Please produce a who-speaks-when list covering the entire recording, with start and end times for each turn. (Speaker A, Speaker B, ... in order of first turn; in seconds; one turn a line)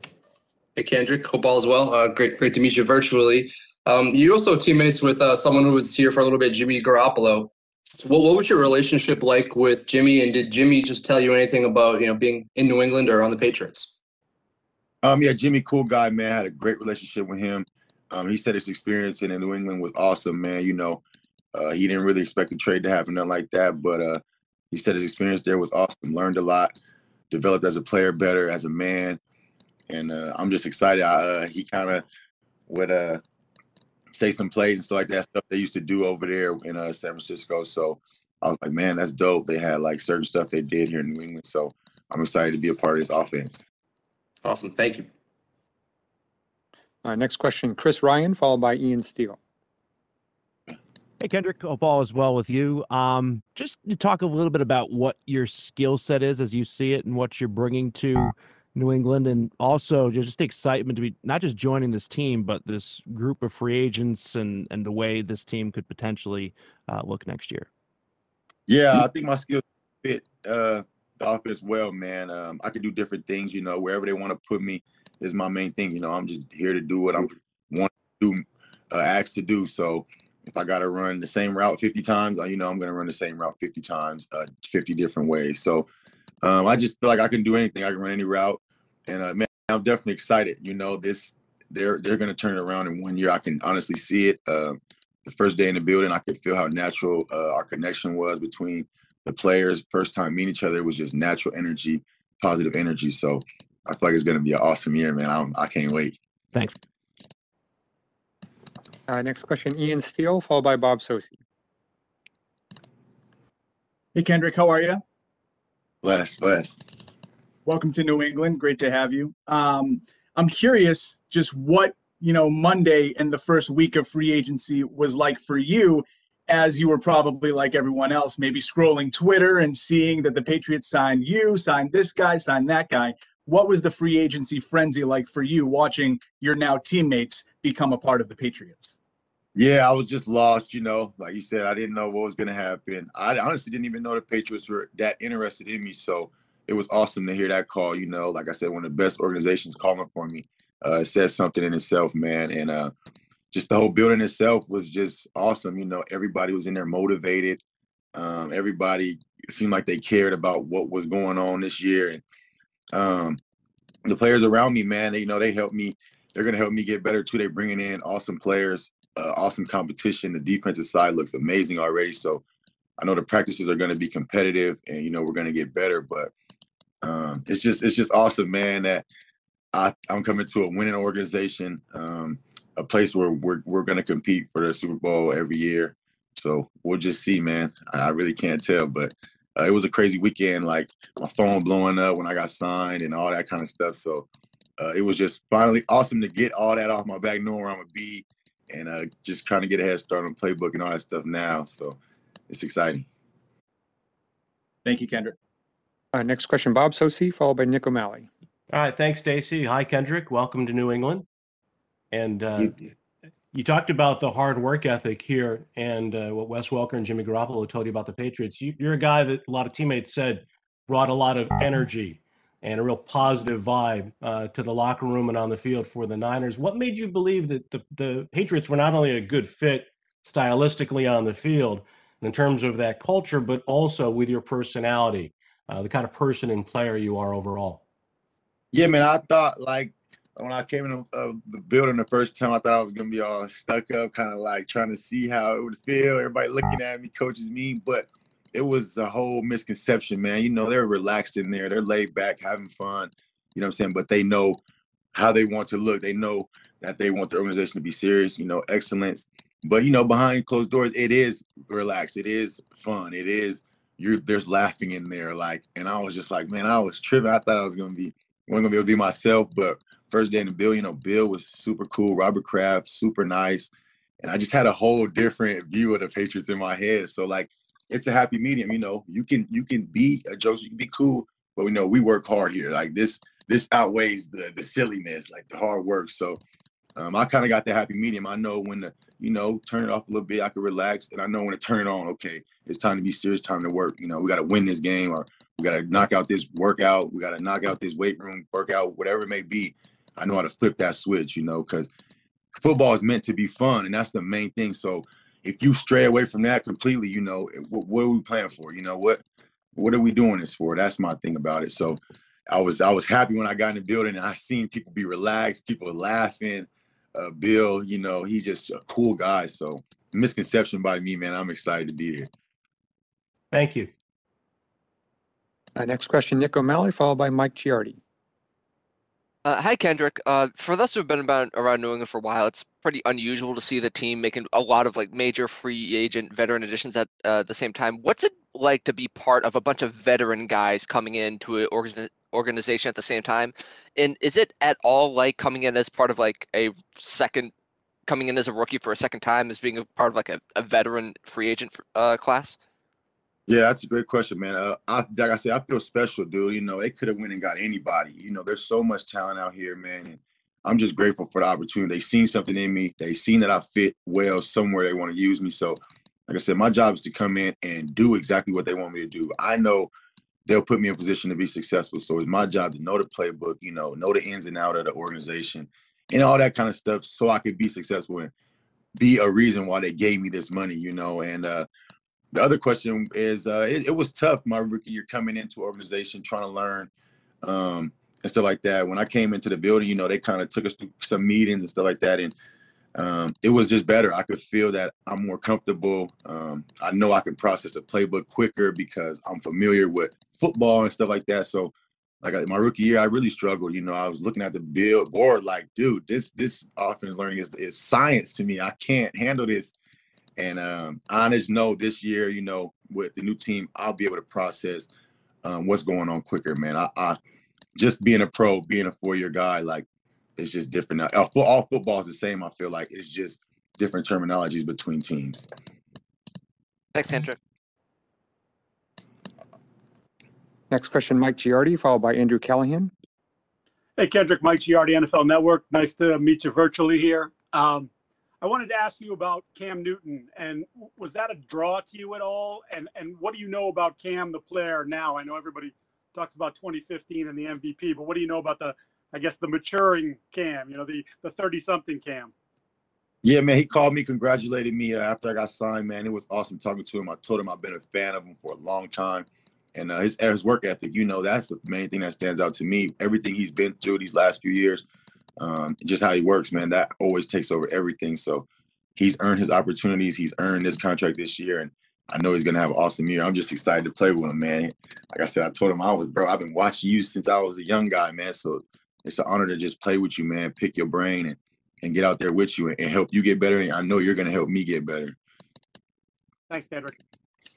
Speaker A: 0.7-14.0
Speaker B: 15.0-21.0
Speaker B: 21.5-24.2
Speaker B: 24.7-26.7
Speaker B: 27.3-29.2
Speaker B: 29.9-32.0
Speaker B: 32.7-33.2
Speaker B: 34.1-43.5
Speaker A: 44.4-45.1
Speaker C: 47.0-49.4
Speaker D: 51.2-67.7
Speaker B: 68.7-85.9
Speaker B: 86.4-106.2
Speaker C: 109.1-111.3
Speaker E: 114.1-115.0
Speaker B: 116.0-116.8
Speaker E: 117.6-139.0
Speaker B: 139.6-152.9
Speaker B: 153.5-157.6
Speaker B: 158.1-162.2
Speaker B: 162.9-163.4
Speaker B: 164.1-172.4
Speaker B: 173.0-176.3
Speaker B: 177.0-179.1
Speaker B: 179.7-194.3
Speaker B: 194.8-202.0
Speaker B: 202.5-203.1
Speaker E: 204.8-205.3
Speaker C: 206.1-208.3
Speaker F: 208.7-211.2
Speaker F: 212.1-212.8
Speaker F: 213.5-237.8
Speaker B: 238.7-254.6
Speaker B: 255.1-286.4
Speaker B: 287.0-301.9
Speaker B: 302.6-309.2
Speaker B: 309.7-322.3
Speaker F: 323.5-323.9
Speaker C: 325.8-328.0
Speaker G: 329.4-347.5
Speaker G: 348.1-352.6
Speaker B: 353.5-369.9
Speaker B: 370.4-378.3
Speaker B: 379.0-381.7
Speaker B: 382.3-386.9
Speaker B: 387.4-392.3
Speaker B: 392.9-409.7
Speaker B: 410.4-414.9
Speaker B: 415.4-417.2
Speaker B: 417.8-419.9
Speaker B: 420.4-425.5
Speaker G: 426.9-427.4
Speaker C: 430.7-432.9
Speaker H: 434.0-437.9
Speaker H: 438.4-452.3
Speaker B: 453.2-464.8
Speaker B: 465.4-485.1
Speaker H: 486.5-486.9